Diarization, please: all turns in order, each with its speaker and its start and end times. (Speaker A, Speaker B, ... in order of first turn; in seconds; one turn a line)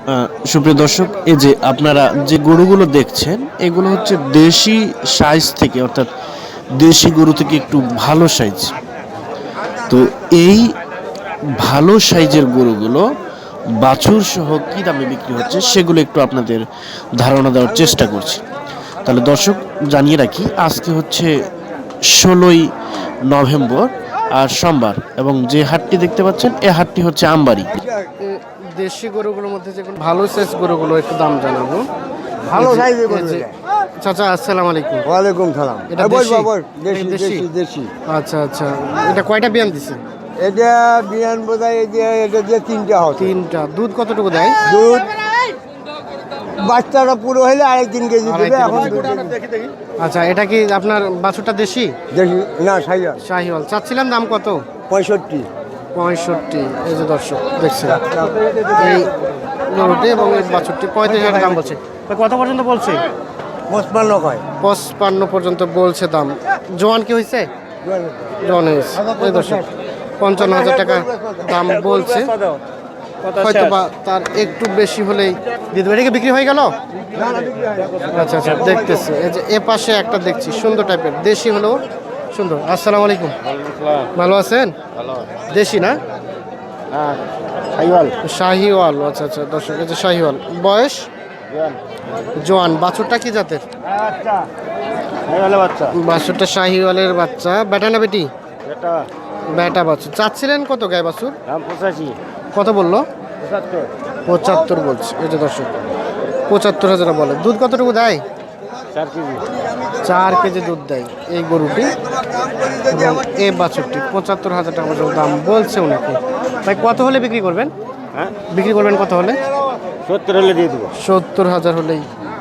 Speaker A: 0.2-6.1
Speaker A: 6.8-8.7
Speaker A: 9.9-10.6
Speaker A: 11.6-13.0
Speaker A: 13.8-16.6
Speaker A: 17.2-18.4
Speaker A: 19.0-21.3
Speaker A: 22.2-22.6
Speaker A: 23.3-27.7
Speaker B: 27.8-28.1
Speaker C: 28.2-31.8
Speaker B: 32.5-33.5
Speaker C: 32.5-35.1
Speaker B: 35.1-37.9
Speaker C: 35.9-37.5
Speaker C: 38.1-40.0
Speaker B: 40.4-43.3
Speaker C: 43.2-44.6
Speaker B: 44.6-45.2
Speaker B: 46.6-49.7
Speaker C: 48.2-49.1
Speaker C: 50.0-51.9
Speaker B: 52.1-53.2
Speaker C: 53.2-54.6
Speaker B: 54.9-55.5
Speaker C: 55.9-58.0
Speaker B: 58.0-58.4
Speaker C: 58.8-59.1
Speaker C: 59.7-63.1
Speaker B: 61.1-61.7
Speaker B: 63.7-64.5
Speaker C: 64.6-67.5
Speaker B: 67.8-68.4
Speaker C: 68.4-69.6
Speaker B: 69.0-69.6
Speaker C: 70.2-72.4
Speaker B: 70.4-71.5
Speaker C: 73.2-76.8
Speaker B: 77.1-79.0
Speaker C: 78.1-83.3
Speaker A: 83.8-84.1
Speaker C: 84.1-84.7
Speaker C: 85.4-86.0
Speaker A: 86.9-87.2
Speaker A: 87.7-88.1
Speaker C: 88.2-91.1
Speaker A: 91.5-91.8
Speaker C: 92.4-93.6
Speaker A: 94.0-94.5
Speaker A: 95.3-95.9
Speaker C: 95.9-98.3
Speaker A: 98.7-99.0
Speaker C: 99.5-101.4
Speaker A: 101.5-102.2
Speaker C: 102.5-103.0
Speaker A: 103.4-103.9
Speaker C: 104.3-105.7
Speaker C: 106.5-108.2
Speaker A: 108.9-109.5
Speaker C: 110.0-111.9
Speaker C: 112.9-117.7
Speaker C: 118.5-119.4
Speaker A: 120.1-120.9
Speaker C: 121.0-122.0